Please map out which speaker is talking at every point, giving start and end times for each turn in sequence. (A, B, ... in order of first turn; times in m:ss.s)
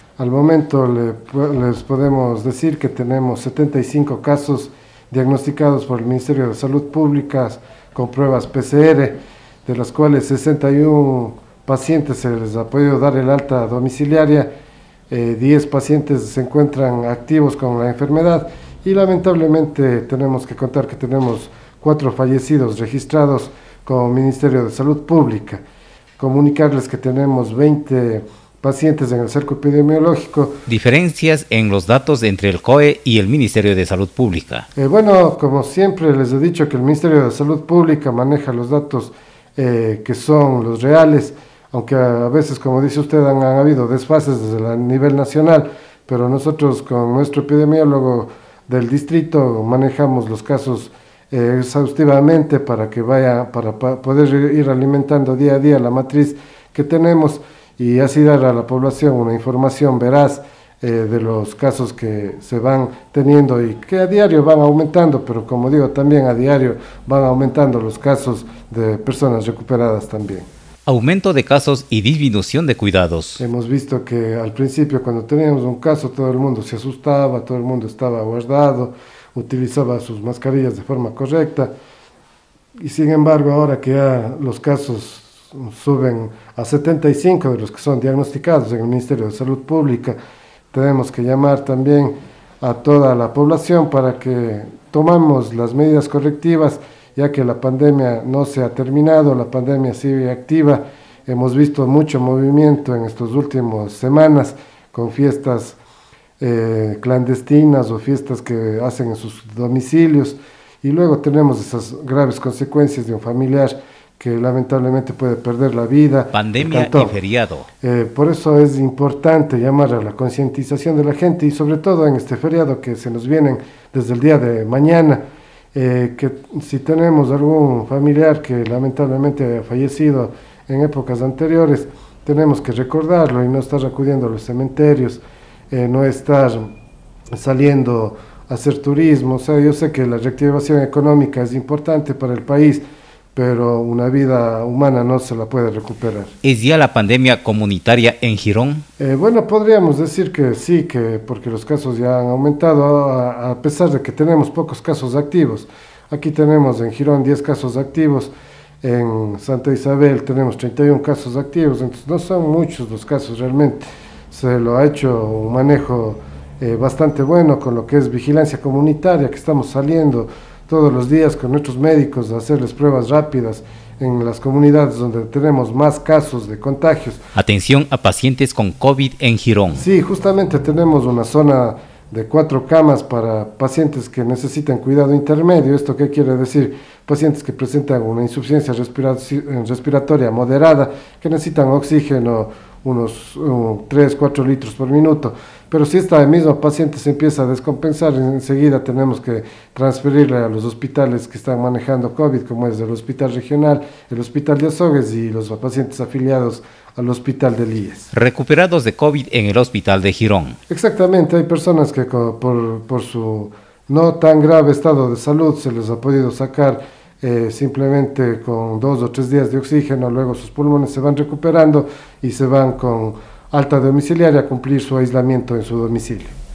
0:00.2-0:14.5 A
0:15.1-0:25.6 A
0:26.2-0:30.6 A
0:30.7-0:34.6 B
0:34.8-1:10.5 A
1:10.8-1:13.4 B
1:13.4-1:21.7 A
1:22.8-1:30.2 A
1:30.7-1:45.8 A
1:46.4-1:57.2 A
1:56.3-1:57.7 B
1:57.8-2:05.2 A
2:05.7-2:16.7 A
2:17.3-2:22.8 A
2:23.3-2:26.3 A
2:26.4-2:28.8 B
2:29.0-2:57.2 A
2:57.4-2:59.8 B
2:59.7-3:28.1 A
3:28.1-3:30.6 B
3:30.7-3:46.3 A